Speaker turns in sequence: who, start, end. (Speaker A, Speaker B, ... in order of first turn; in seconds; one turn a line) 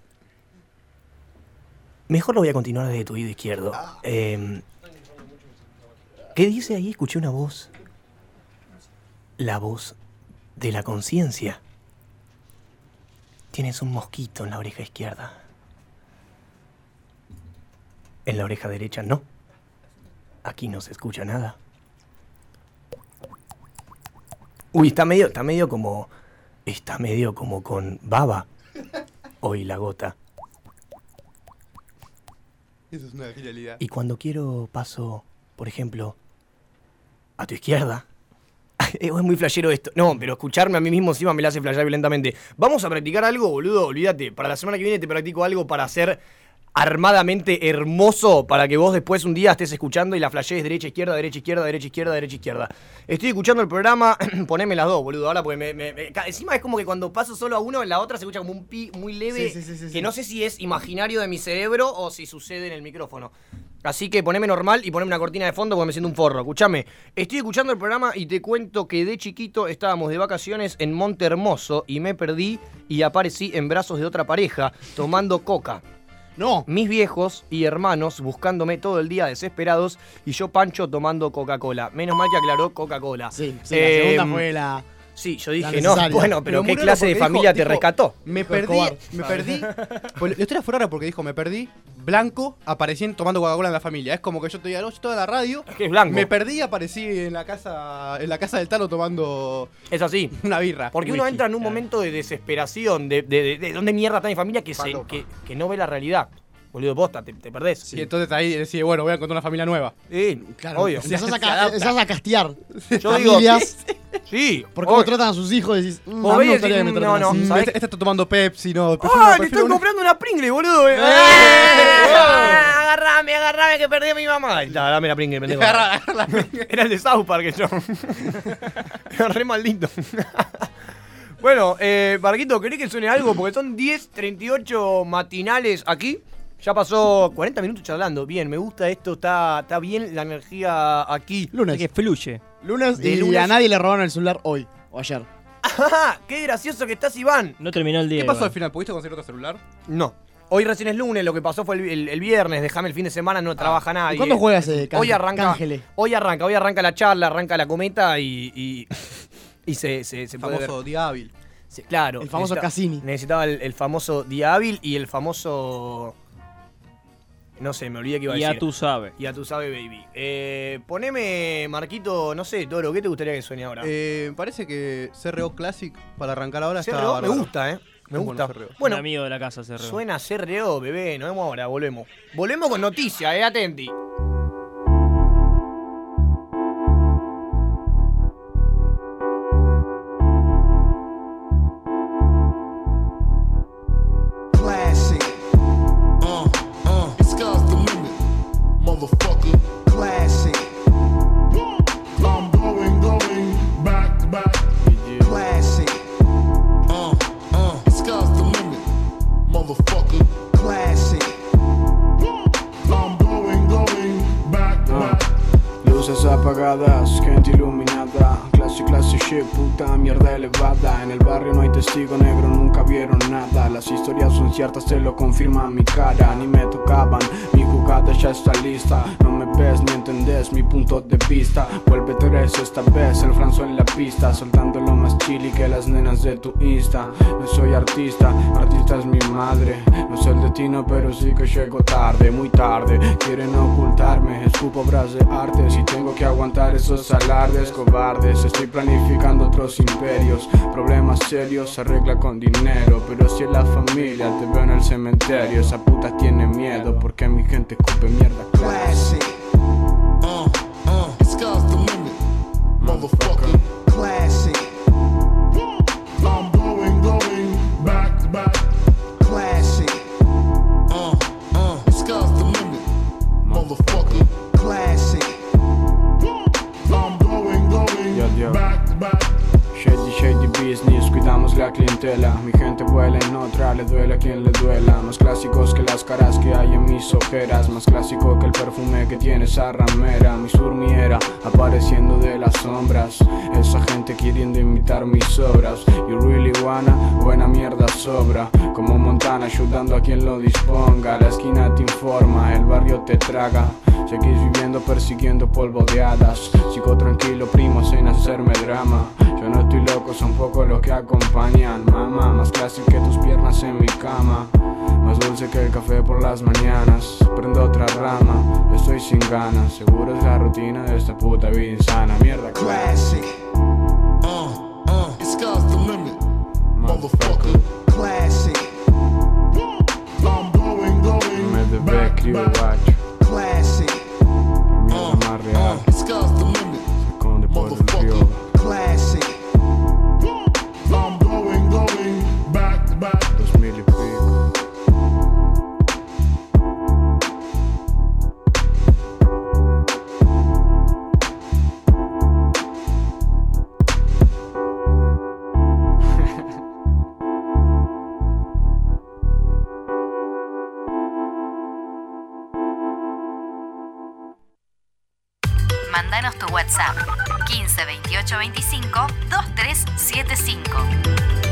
Speaker A: 2.1-4.6
Speaker A: 6.3-7.7
Speaker A: 9.4-9.9
Speaker A: 10.6-11.6
Speaker A: 13.5-15.4
Speaker A: 18.2-19.2
Speaker A: 20.4-21.6
Speaker A: 24.7-26.1
Speaker A: 26.6-28.5
Speaker A: 29.4-30.1
Speaker B: 32.9-33.8
Speaker A: 33.8-36.1
Speaker A: 37.4-38.0
Speaker A: 38.8-46.2
Speaker A: 46.7-63.3
Speaker C: 59.3-60.1
Speaker A: 63.8-75.8
Speaker C: 76.4-76.7
Speaker A: 76.7-84.4
Speaker C: 83.3-84.8
Speaker A: 85.2-88.2
Speaker C: 85.6-86.4
Speaker B: 86.3-99.7
Speaker C: 88.3-89.0
Speaker A: 95.7-96.3
Speaker A: 99.9-100.3
Speaker B: 100.3-101.2
Speaker A: 100.9-108.0
Speaker D: 101.1-101.8
Speaker B: 104.8-105.1
Speaker B: 107.9-109.9
Speaker A: 110.1-111.1
Speaker C: 110.4-113.8
Speaker B: 111.0-111.9
Speaker B: 112.8-113.7
Speaker A: 113.0-113.7
Speaker A: 114.3-115.1
Speaker C: 114.7-117.6
Speaker A: 116.2-117.7
Speaker B: 117.3-119.8
Speaker A: 119.0-128.5
Speaker B: 120.9-122.7
Speaker C: 121.3-122.5
Speaker B: 125.5-126.7
Speaker A: 129.1-130.7
Speaker A: 131.4-141.5
Speaker C: 141.5-141.8
Speaker D: 141.7-142.4
Speaker C: 142.6-145.3
Speaker A: 142.9-143.5
Speaker A: 145.6-147.6
Speaker D: 147.6-148.5
Speaker B: 148.1-149.6
Speaker A: 149.9-160.8
Speaker C: 154.0-155.8
Speaker B: 160.4-161.3
Speaker A: 161.7-166.1
Speaker C: 162.2-163.0
Speaker A: 167.6-168.6
Speaker D: 168.3-169.1
Speaker A: 169.2-173.9
Speaker B: 173.8-177.5
Speaker A: 176.8-179.0
Speaker B: 178.1-178.7
Speaker D: 178.8-180.0
Speaker A: 179.8-183.9
Speaker E: 194.5-195.3
Speaker E: 196.2-198.2
Speaker E: 198.8-200.6
Speaker E: 202.2-204.7
Speaker F: 204.8-205.4
Speaker E: 205.2-205.9
Speaker E: 206.9-208.8
Speaker E: 209.5-211.3
Speaker E: 212.9-215.3
Speaker F: 214.8-215.2
Speaker F: 215.8-259.2
Speaker E: 258.5-259.3
Speaker E: 260.2-262.2
Speaker F: 262.8-263.7
Speaker E: 262.8-264.6
Speaker E: 266.2-268.6
Speaker E: 269.2-270.0
Speaker E: 270.9-272.9
Speaker F: 273.4-274.3
Speaker E: 273.5-275.3
Speaker E: 276.9-279.3
Speaker F: 278.1-278.7
Speaker F: 279.7-323.2
Speaker E: 322.6-323.3
Speaker E: 324.2-326.2
Speaker F: 326.7-327.7
Speaker E: 326.8-328.6
Speaker E: 330.2-332.6
Speaker F: 331.3-333.0
Speaker E: 333.2-333.9
Speaker F: 334.7-335.9
Speaker E: 334.9-336.9
Speaker F: 337.0-338.5
Speaker E: 337.5-339.3
Speaker E: 340.9-343.3
Speaker F: 343.3-344.4
Speaker G: 365.9-370.9